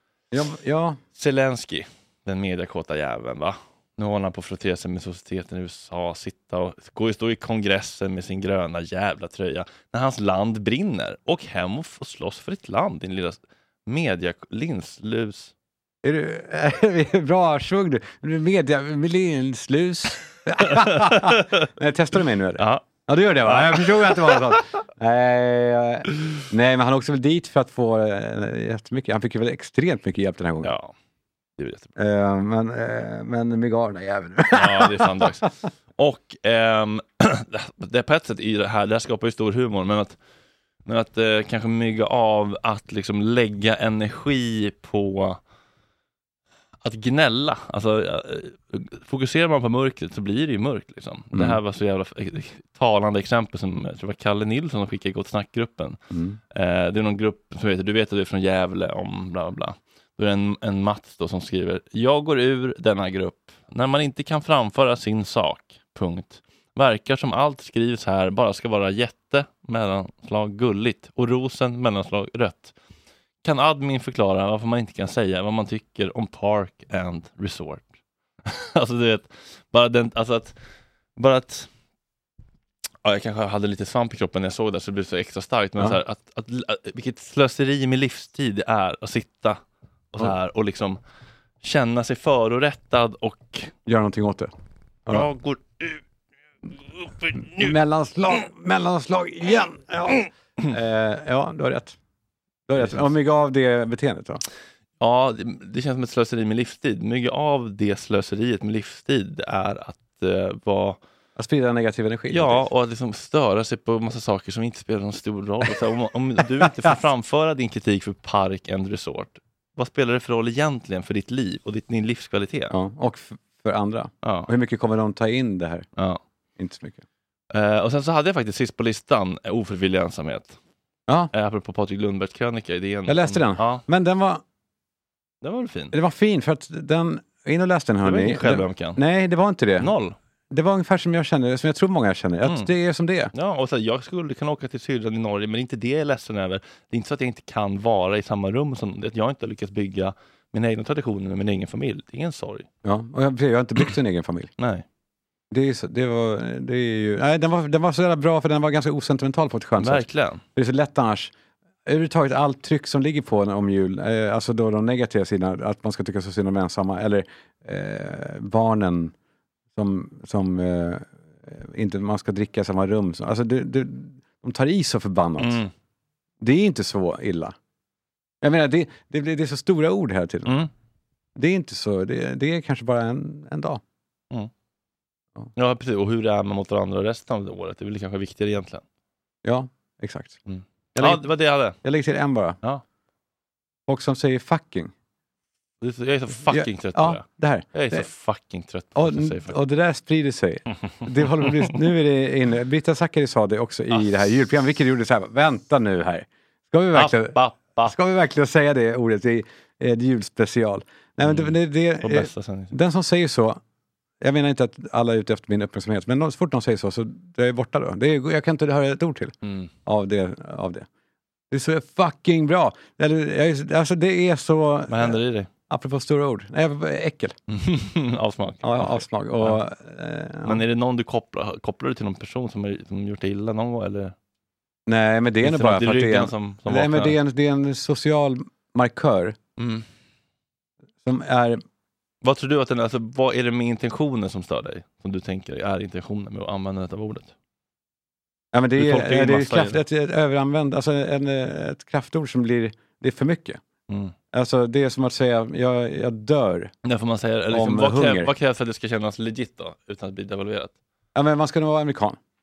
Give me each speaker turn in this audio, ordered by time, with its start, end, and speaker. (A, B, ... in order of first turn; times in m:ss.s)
0:00.3-0:01.0 A
0:01.2-0:15.5 B
0:16.0-0:30.7 A
0:20.6-0:21.5 B
0:22.6-0:22.8 B
0:23.4-0:24.6 B
0:30.6-0:30.9 B
0:31.6-0:31.9 B
0:32.0-0:35.3 A
0:34.5-0:40.2 B
0:40.8-0:45.4 B
0:46.8-0:56.0 B
0:56.1-0:56.4 A
0:56.5-1:12.7 B
1:13.4-1:17.9 B
1:18.4-1:20.5 B
1:21.2-1:21.7 B
1:23.0-1:29.6 B
1:30.1-1:31.0 B
1:31.6-1:33.7 B
1:33.8-1:34.5 A
1:35.1-1:36.0 B
1:36.7-1:37.7 B
1:37.6-1:42.0 A
1:42.7-1:44.4 A
1:42.8-1:43.0 B
1:45.0-1:51.0 B
1:51.4-1:52.7 A
1:52.3-2:02.7 B
1:56.6-1:56.9 A
2:02.7-2:05.8 A
2:04.2-2:04.5 B
2:06.6-2:07.0 A
2:07.5-2:10.6 B
2:11.3-2:13.8 B
2:13.1-2:14.4 A
2:15.4-2:15.9 B
2:15.9-2:19.9 A
2:18.0-2:19.0 B
2:19.8-2:20.1 B
2:20.5-2:23.3 A
2:23.3-2:32.7 B
2:32.8-2:34.5 A
2:34.6-2:34.8 B
2:35.5-2:41.3 A
2:39.8-2:40.4 B
2:41.8-2:49.1 A
2:49.7-2:55.6 A
2:55.4-2:55.7 B
2:56.4-2:57.5 A
2:58.4-3:00.6 A
3:01.4-3:03.8 A
3:05.6-3:08.8 B
3:09.4-3:10.4 A
3:10.5-3:11.8 B
3:11.0-3:11.2 A
3:11.8-3:12.6 A
3:13.9-3:14.9 A
3:15.8-3:19.6 B
3:16.5-3:18.0 A
3:19.0-3:33.6 A
3:21.4-3:21.6 B
3:26.9-3:27.9 B
3:31.2-3:32.7 B
3:34.2-3:39.3 A
3:39.4-3:39.7 B
3:39.8-3:40.9 A
3:41.5-3:45.2 A
3:44.9-3:45.5 B
3:45.7-3:47.4 A
3:47.5-3:49.6 B
3:48.6-3:50.6 A
3:50.4-3:54.1 B
3:54.9-3:59.4 A
3:55.4-3:57.1 B
3:59.6-3:59.8 B
4:01.0-4:01.6 A
4:02.2-4:07.3 B
4:08.5-4:13.6 A
4:08.8-4:09.8 B
4:13.9-4:14.1 B
4:14.3-4:16.7 A
4:16.8-4:20.7 B
4:17.5-4:18.3 A
4:21.1-4:22.2 A